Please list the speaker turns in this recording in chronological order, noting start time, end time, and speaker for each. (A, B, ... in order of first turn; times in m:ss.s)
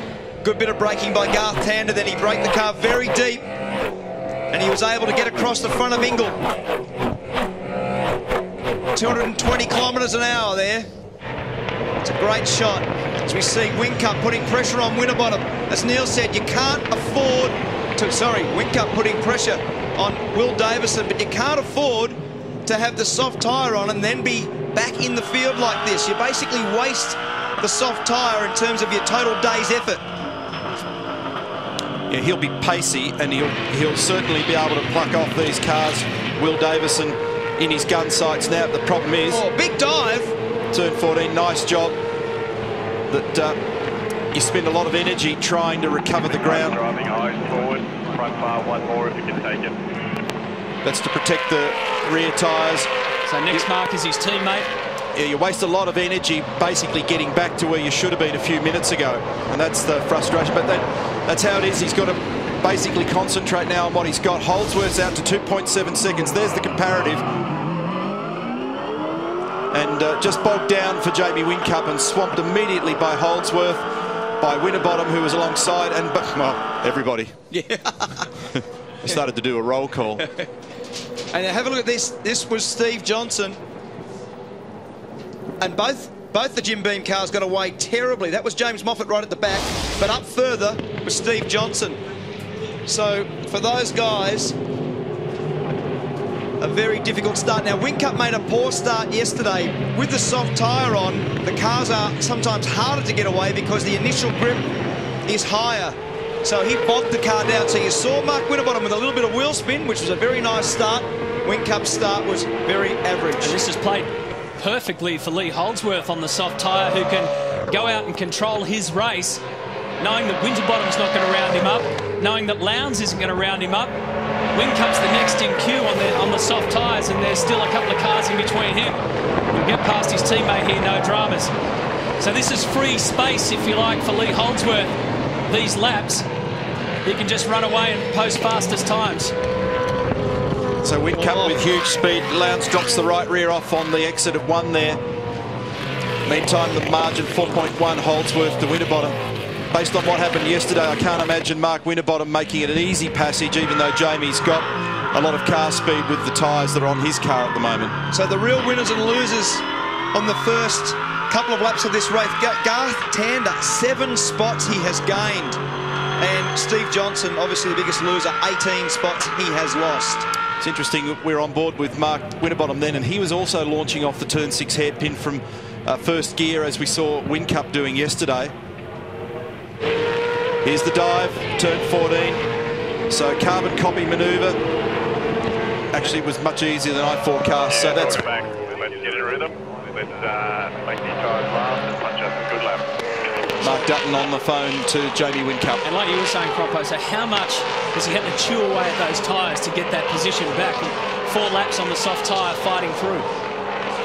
0:00.4-0:03.5 A
0:04.5-0:06.4 A
0:09.0-0:10.9 A
0:12.0-0:30.0 A
0:32.1-0:39.4 B
0:39.3-0:40.3 A
0:40.7-0:42.0 B
0:43.1-0:43.6 B
0:44.3-0:46.8 B
0:46.4-0:49.8 C
0:50.8-0:52.9 B
0:53.3-0:54.7 D
0:55.2-1:07.2 B
1:09.7-1:13.8 B
1:14.4-1:17.4 B
1:17.5-1:18.3 A
1:19.0-1:20.2 B
1:20.2-1:20.4 A
1:21.3-1:23.6 A
1:25.6-1:32.0 A
1:32.9-1:34.6 A
1:36.6-1:44.7 A
1:45.3-1:53.6 A
1:53.4-1:59.4 D
2:00.0-2:03.9 D
2:04.5-2:09.0 D
2:09.5-2:11.5 D
2:12.2-2:15.0 D
2:15.5-2:16.3 D
2:17.1-2:19.3 D
2:20.8-2:25.0 B
2:26.3-2:29.2 B
2:29.7-2:38.0 B
2:38.1-2:45.6 A
2:46.2-2:50.3 A
2:50.6-2:58.5 B
3:00.6-3:02.4 B
3:03.1-3:04.6 B
3:05.9-3:08.3 B
3:07.7-3:12.9 C
3:13.6-3:15.8 B
3:15.8-3:23.3 D